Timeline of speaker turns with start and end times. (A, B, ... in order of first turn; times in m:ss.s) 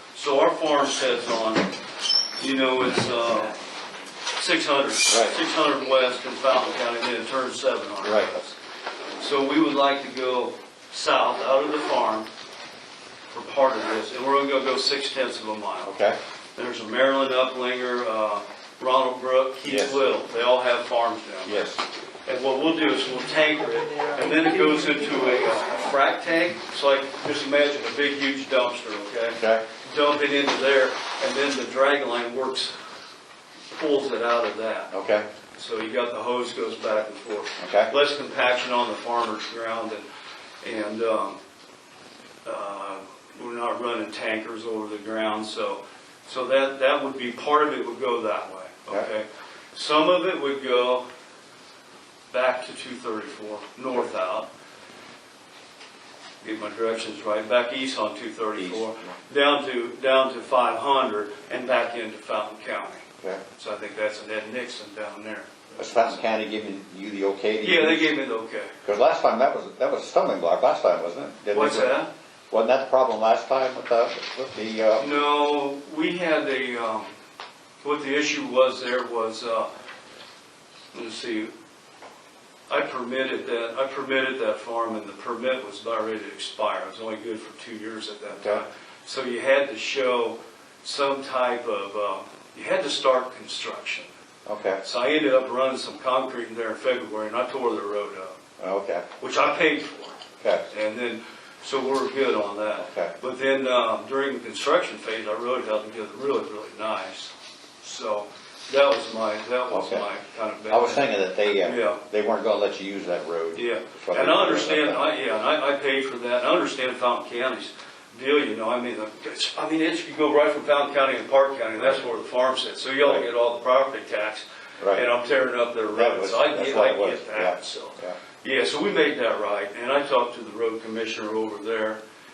0:00.1-0:01.7 A
0:02.4-0:03.6 A
0:04.4-0:08.6 A
0:05.1-0:05.4 B
0:08.0-0:08.3 B
0:09.2-0:12.3 A
0:13.3-0:15.9 A
0:15.8-0:16.2 B
0:16.6-0:21.7 A
0:19.6-0:20.0 B
0:21.5-0:21.8 B
0:22.3-0:32.8 A
0:29.4-0:29.6 B
0:33.7-0:34.9 A
0:34.9-0:35.2 B
0:35.6-0:40.1 A
0:37.6-0:37.9 B
0:40.6-0:41.4 A
0:42.4-0:51.0 A
0:52.3-0:54.5 A
0:56.4-1:06.2 A
0:58.6-0:59.1 B
1:05.8-1:08.2 B
1:07.6-1:08.7 A
1:08.8-1:12.0 B
1:11.5-1:12.1 A
1:12.5-1:15.1 B
1:15.0-1:17.1 A
1:17.8-1:19.7 A
1:20.9-1:21.5 A
1:22.7-1:34.1 A
1:34.5-1:34.8 B
1:34.8-1:38.3 A
1:38.6-1:39.1 B
1:39.2-1:40.2 A
1:40.4-1:40.7 B
1:40.7-1:51.1 A
1:42.8-1:43.1 B
1:49.7-1:50.1 B
1:50.7-1:55.1 B
1:51.6-1:52.0 A
1:53.6-2:12.0 A
2:04.8-2:05.1 B
2:05.9-2:08.2 B